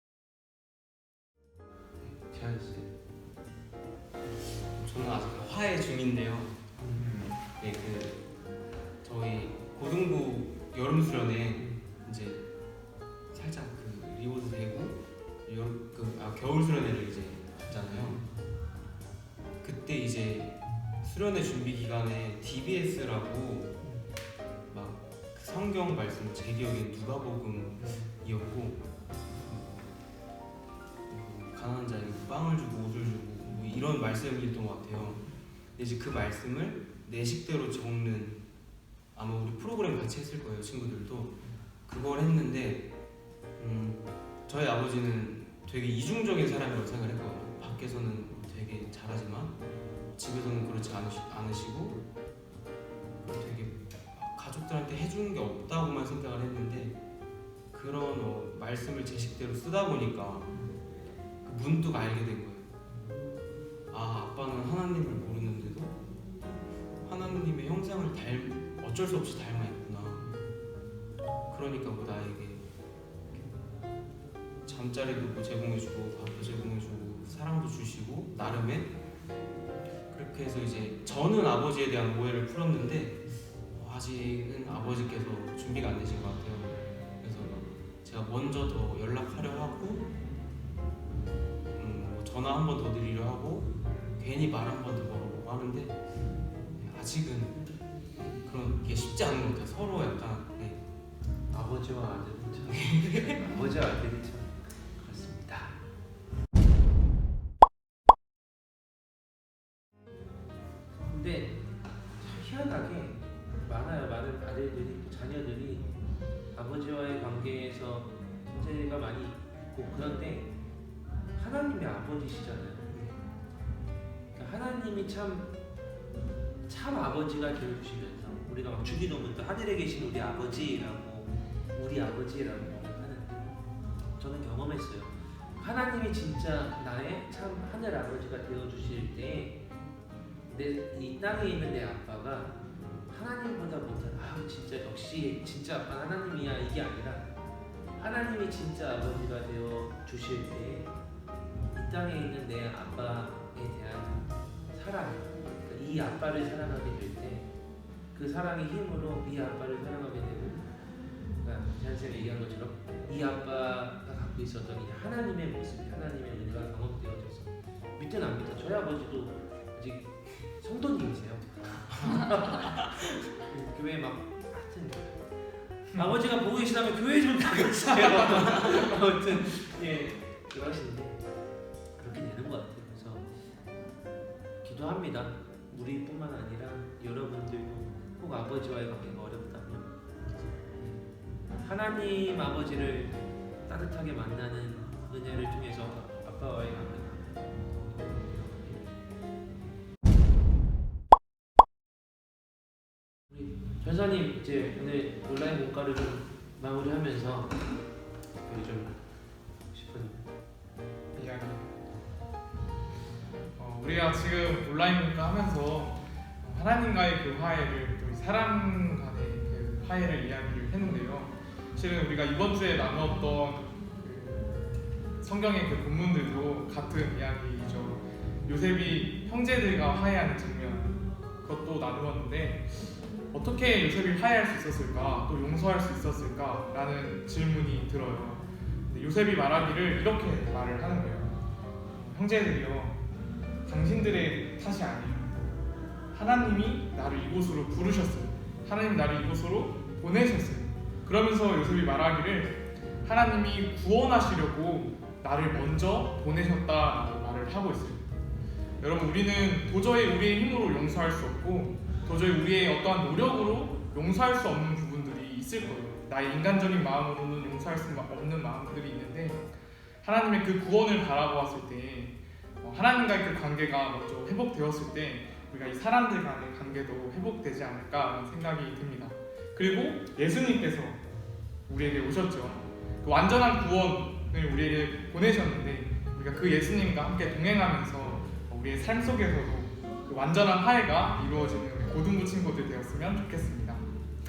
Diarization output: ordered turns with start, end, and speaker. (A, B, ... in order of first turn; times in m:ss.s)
0:02.0-0:02.9 A
0:04.8-0:06.5 B
0:06.8-0:07.3 A
0:07.0-0:07.3 C
0:07.4-0:08.2 B
0:09.0-0:12.4 B
0:13.3-0:18.2 B
0:18.0-0:18.3 A
0:19.6-0:23.8 B
0:24.7-0:29.9 B
0:27.8-0:28.1 A
0:31.1-0:38.4 B
0:39.1-0:42.9 B
0:43.6-0:49.6 B
0:50.2-0:52.0 B
0:53.2-0:57.0 B
0:57.7-1:00.6 B
1:01.4-1:02.7 B
1:03.9-1:06.0 B
1:07.0-1:10.4 B
1:11.5-1:12.6 B
1:14.6-1:18.9 B
1:20.1-1:30.1 B
1:31.7-1:36.0 B
1:36.8-1:37.8 B
1:38.4-1:40.8 B
1:41.5-1:45.8 A
1:42.7-1:43.4 B
1:51.0-1:51.6 A
1:52.2-1:56.0 A
1:56.5-2:00.5 A
2:01.4-2:03.2 A
2:04.3-2:05.5 A
2:06.7-2:19.6 A
2:20.5-2:27.3 A
2:28.0-2:30.9 A
2:31.7-2:37.5 A
2:38.1-2:40.7 A
2:41.4-2:55.3 A
2:55.9-3:01.2 A
3:02.0-3:03.3 A
3:04.6-3:09.9 A
3:11.6-3:18.9 A
3:23.3-3:27.6 A
3:28.5-3:29.0 A
3:29.7-3:30.3 A
3:31.1-3:31.7 C
3:33.6-3:44.6 C
3:45.2-4:01.4 C
4:01.9-4:03.0 C
4:03.7-4:05.4 C
4:06.1-4:18.1 C
4:18.8-4:29.5 C
4:30.0-4:41.0 C
4:41.7-4:53.9 C